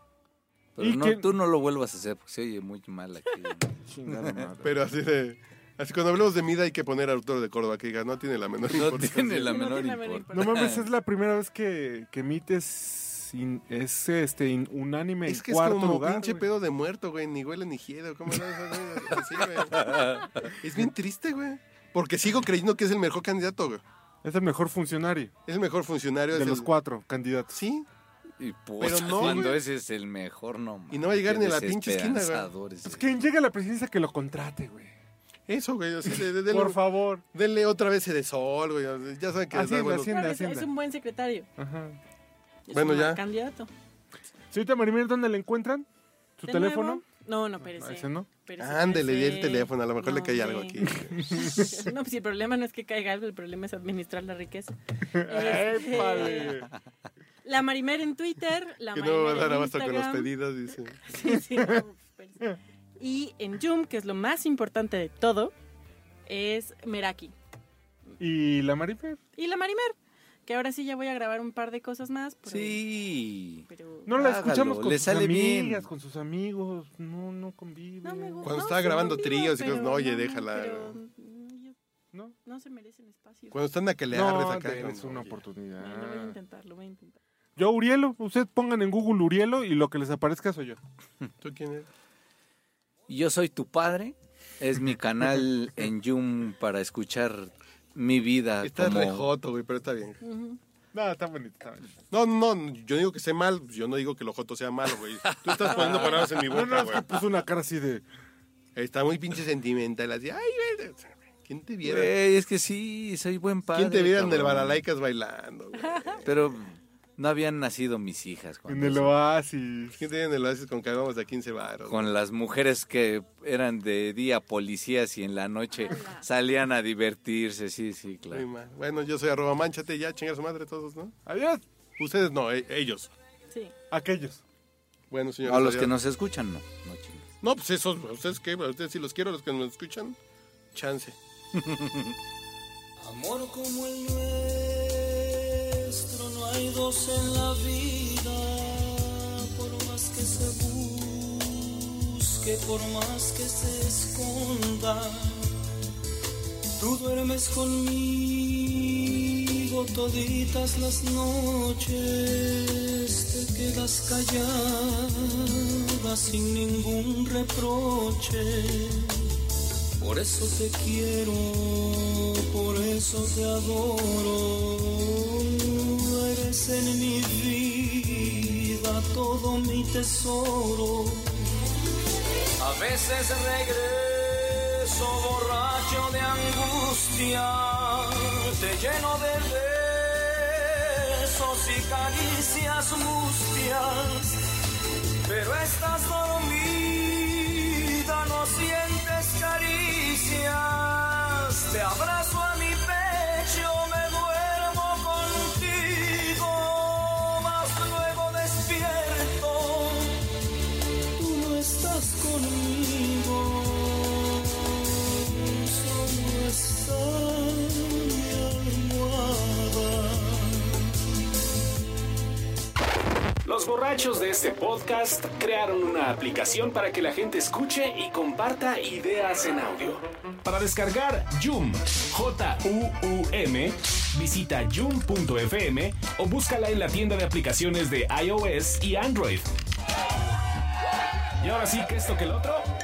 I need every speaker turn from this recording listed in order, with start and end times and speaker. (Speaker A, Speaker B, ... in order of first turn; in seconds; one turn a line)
Speaker A: 0.7-4.5
Speaker B: 0.8-1.4
Speaker B: 3.8-4.8
Speaker C: 4.6-9.6
Speaker A: 8.7-10.9
Speaker D: 9.4-10.8
Speaker B: 10.3-16.5
Speaker C: 15.2-23.8
Speaker A: 19.8-20.3
Speaker B: 24.2-25.3
Speaker C: 25.5-26.7
Speaker B: 26.3-27.5
Speaker C: 27.5-27.9
Speaker A: 28.4-33.1
Speaker C: 28.8-29.6
Speaker B: 29.2-29.4
Speaker C: 30.9-32.5
Speaker B: 32.8-34.9
Speaker C: 35.5-36.8
Speaker B: 36.5-37.2
Speaker C: 37.3-40.2
Speaker B: 39.5-40.7
Speaker D: 40.0-41.5
Speaker B: 41.6-42.0
Speaker D: 42.7-43.7
Speaker C: 42.7-43.2
Speaker B: 44.5-45.9
Speaker B: 46.4-47.0
Speaker D: 46.5-56.6
Speaker B: 47.6-48.3
Speaker C: 48.6-51.4
Speaker B: 50.9-51.7
Speaker B: 55.1-56.7
Speaker D: 57.4-60.3
Speaker C: 58.9-61.0
Speaker D: 61.0-65.5
Speaker B: 61.2-61.8
Speaker D: 66.3-67.3
Speaker B: 68.2-69.2
Speaker D: 69.4-69.9
Speaker D: 70.5-72.8
Speaker A: 72.5-75.9
Speaker D: 73.7-74.1
Speaker B: 74.0-78.7
Speaker D: 78.0-81.8
Speaker C: 78.4-81.0
Speaker D: 82.4-83.6
Speaker C: 83.5-85.4
Speaker B: 84.1-86.4
Speaker D: 85.8-87.2
Speaker B: 87.6-90.8
Speaker C: 91.4-91.9
Speaker A: 93.1-99.3
Speaker C: 98.6-100.2
Speaker D: 100.2-100.6
Speaker B: 100.9-101.9
Speaker C: 102.1-107.2
Speaker A: 105.3-106.8
Speaker B: 106.5-108.0
Speaker C: 108.8-112.1
Speaker A: 111.8-114.8
Speaker C: 113.7-116.5
Speaker D: 115.8-116.2
Speaker A: 116.2-119.2
Speaker B: 118.7-120.0
Speaker C: 120.0-122.1
Speaker A: 121.9-128.4
Speaker D: 125.7-126.2
Speaker C: 128.3-131.2
Speaker B: 131.2-131.6
Speaker C: 132.0-133.1
Speaker B: 133.9-134.4
Speaker C: 135.1-135.9
Speaker A: 135.4-137.3
Speaker C: 137.4-140.2
Speaker C: 140.7-141.2
Speaker A: 141.6-142.1
Speaker E: 143.0-155.6
Speaker E: 156.8-169.3
Speaker E: 170.0-181.4
Speaker E: 182.6-194.4
Speaker E: 195.2-210.2
Speaker E: 211.2-221.4
Speaker F: 223.4-239.5
Speaker F: 241.4-242.7